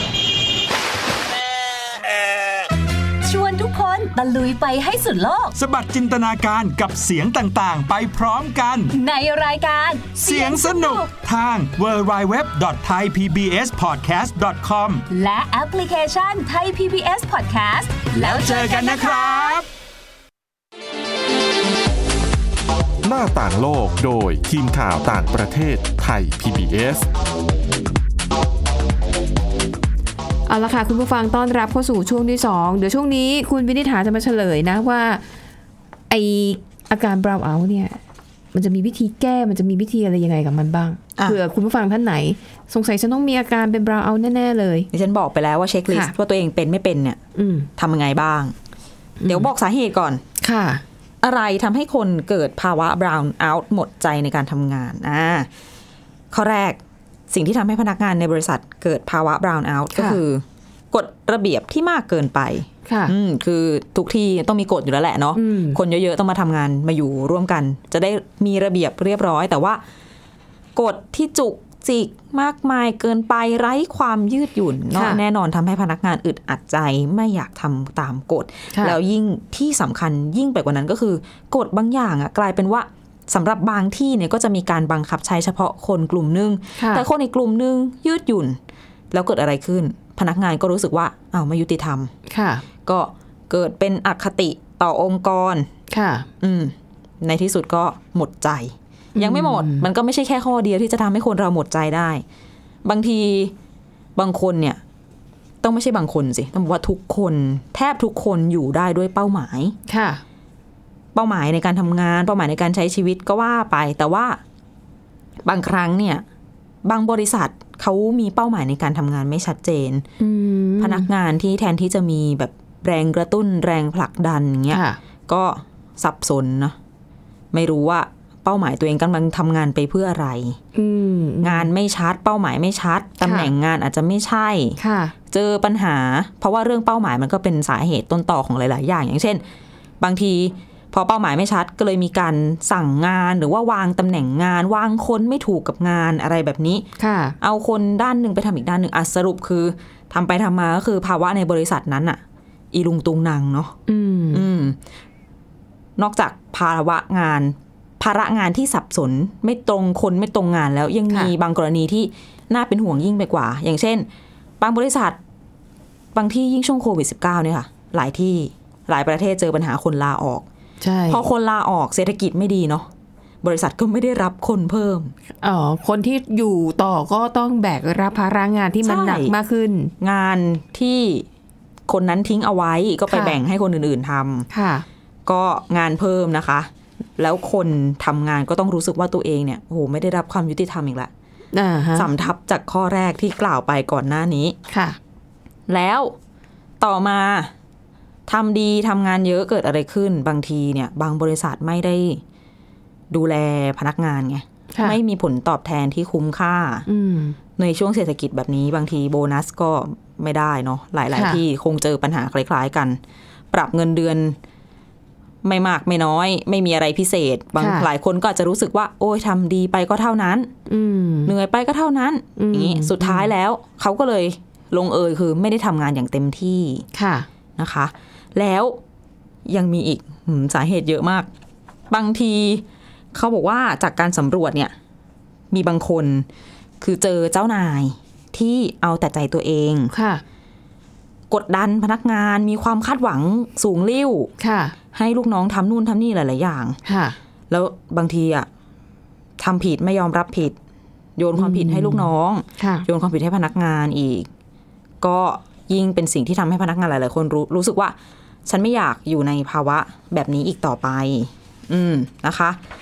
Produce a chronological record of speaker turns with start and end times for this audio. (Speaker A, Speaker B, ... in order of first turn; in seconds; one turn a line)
Speaker A: 3.2-5.5
Speaker B: 5.6-8.9
Speaker A: 8.9-11.1
Speaker B: 10.2-15.0
Speaker A: 15.1-19.6
Speaker B: 18.1-19.7
Speaker C: 23.0-27.1
Speaker D: 30.5-35.2
Speaker D: 36.1-38.0
Speaker D: 38.5-44.9
Speaker E: 44.9-47.2
Speaker D: 47.4-47.7
Speaker E: 47.8-48.5
Speaker D: 49.2-49.5
Speaker E: 49.3-50.2
Speaker D: 50.4-50.8
Speaker E: 51.2-55.5
Speaker E: 56.3-69.8
Speaker D: 59.9-60.2
Speaker D: 62.9-63.1
Speaker D: 65.3-65.8
Speaker E: 70.8-88.6
Speaker D: 74.9-75.2
Speaker D: 86.8-87.1
Speaker E: 89.1-92.1
Speaker D: 92.3-92.7
Speaker E: 92.8-95.7
Speaker D: 95.9-96.3
Speaker E: 96.4-102.2
Speaker D: 99.2-99.9
Speaker E: 102.8-103.5
Speaker E: 104.2-104.8
Speaker E: 105.6-109.8
Speaker D: 109.9-110.2
Speaker E: 111.1-114.4
Speaker E: 115.5-116.2
Speaker E: 116.8-120.1
Speaker D: 120.2-121.1
Speaker E: 120.8-126.8
Speaker D: 124.7-125.0
Speaker E: 127.5-130.6
Speaker D: 130.8-131.7
Speaker E: 131.4-134.8
Speaker D: 133.2-133.5
Speaker D: 134.8-135.1
Speaker E: 135.3-139.4
Speaker E: 140.0-146.9
Speaker D: 147.0-147.4
Speaker E: 147.4-152.2
Speaker E: 152.7-153.8
Speaker D: 153.9-154.5
Speaker E: 154.3-154.8
Speaker E: 156.0-164.1
Speaker E: 164.6-165.2
Speaker E: 166.1-170.5
Speaker D: 170.8-171.2
Speaker E: 171.1-172.9
Speaker E: 173.4-175.1
Speaker D: 175.4-179.9
Speaker E: 178.8-179.3
Speaker E: 180.0-181.3
Speaker E: 181.9-184.5
Speaker D: 183.1-183.4
Speaker D: 184.5-184.8
Speaker E: 185.3-191.1
Speaker D: 191.5-192.1
Speaker E: 191.9-194.6
Speaker D: 194.7-195.0
Speaker E: 195.7-196.2
Speaker E: 196.8-197.5
Speaker E: 198.3-202.2
Speaker E: 203.1-206.9
Speaker D: 204.7-205.0
Speaker D: 206.9-207.4
Speaker E: 207.6-213.0
Speaker D: 211.1-211.4
Speaker E: 213.5-214.4
Speaker E: 215.4-220.5
Speaker D: 217.6-217.9
Speaker D: 220.7-221.3
Speaker E: 221.2-226.8
Speaker D: 222.4-223.3
Speaker D: 226.9-227.3
Speaker E: 227.6-228.8
Speaker E: 229.5-231.3
Speaker E: 231.9-234.7
Speaker E: 235.5-236.3
Speaker E: 236.8-239.9
Speaker D: 239.9-240.2
Speaker E: 241.3-244.3
Speaker D: 244.4-244.8
Speaker E: 244.9-246.8
Speaker D: 246.9-247.2
Speaker E: 247.5-248.5
Speaker E: 249.4-250.6
Speaker E: 251.2-254.3
Speaker D: 251.4-252.9
Speaker E: 255.0-262.6